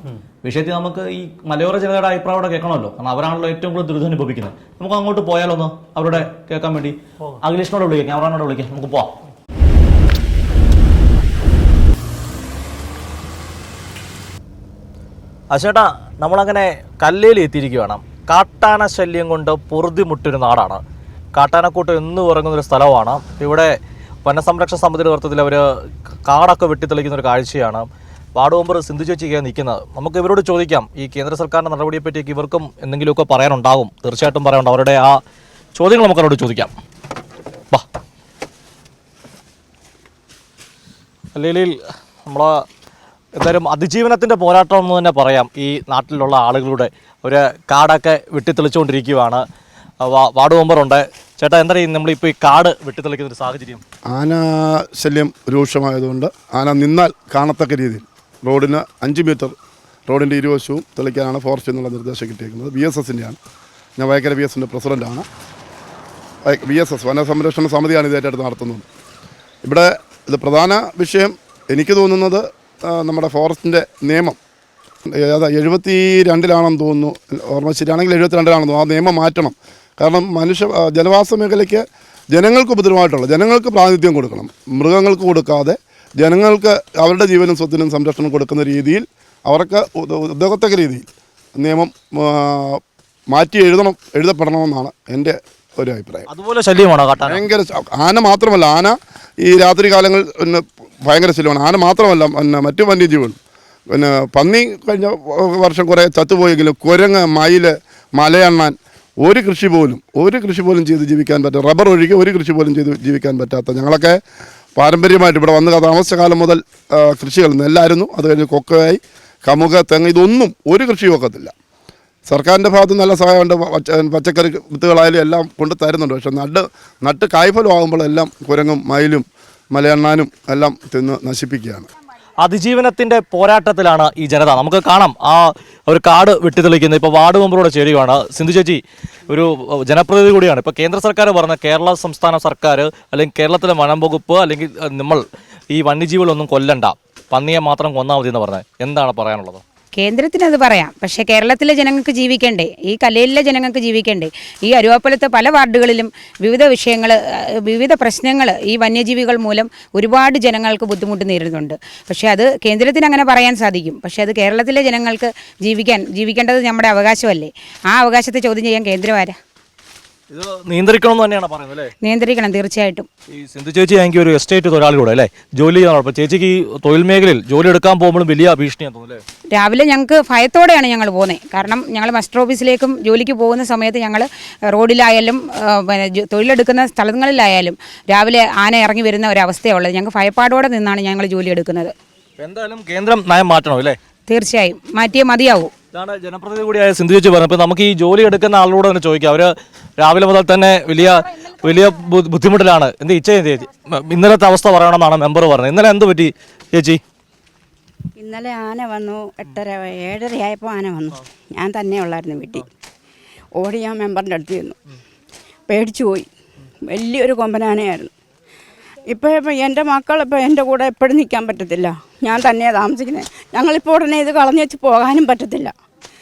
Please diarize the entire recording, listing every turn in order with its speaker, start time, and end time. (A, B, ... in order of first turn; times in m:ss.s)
0:00.4-0:09.1 A
0:15.5-0:20.8 A
0:21.4-0:23.7 A
0:24.2-0:25.7 A
0:26.3-0:35.2 A
0:35.8-0:36.7 A
0:41.3-0:42.5 A
0:43.4-0:49.4 A
0:50.0-0:53.8 A
0:54.1-0:59.6 B
1:00.1-1:03.4 B
1:04.0-1:05.3 B
1:06.4-1:08.9 B
1:09.6-1:14.4 B
1:15.1-1:32.8 B
1:33.3-1:36.2 B
1:36.3-1:37.5 A
1:37.3-1:43.4 B
1:43.9-1:54.2 B
1:54.8-2:01.5 B
2:02.3-2:11.9 B
2:12.4-2:29.6 A
2:30.0-2:49.4 C
2:50.3-2:51.9 A
2:52.0-2:53.1 C
2:53.3-2:59.2 A
2:59.5-3:11.9 C
3:12.4-3:14.0 A
3:14.3-3:15.7 C
3:15.9-3:27.0 A
3:28.2-3:32.6 D
3:33.6-3:34.8 D
3:35.7-3:36.3 D
3:36.9-3:38.1 D
3:39.1-3:45.7 D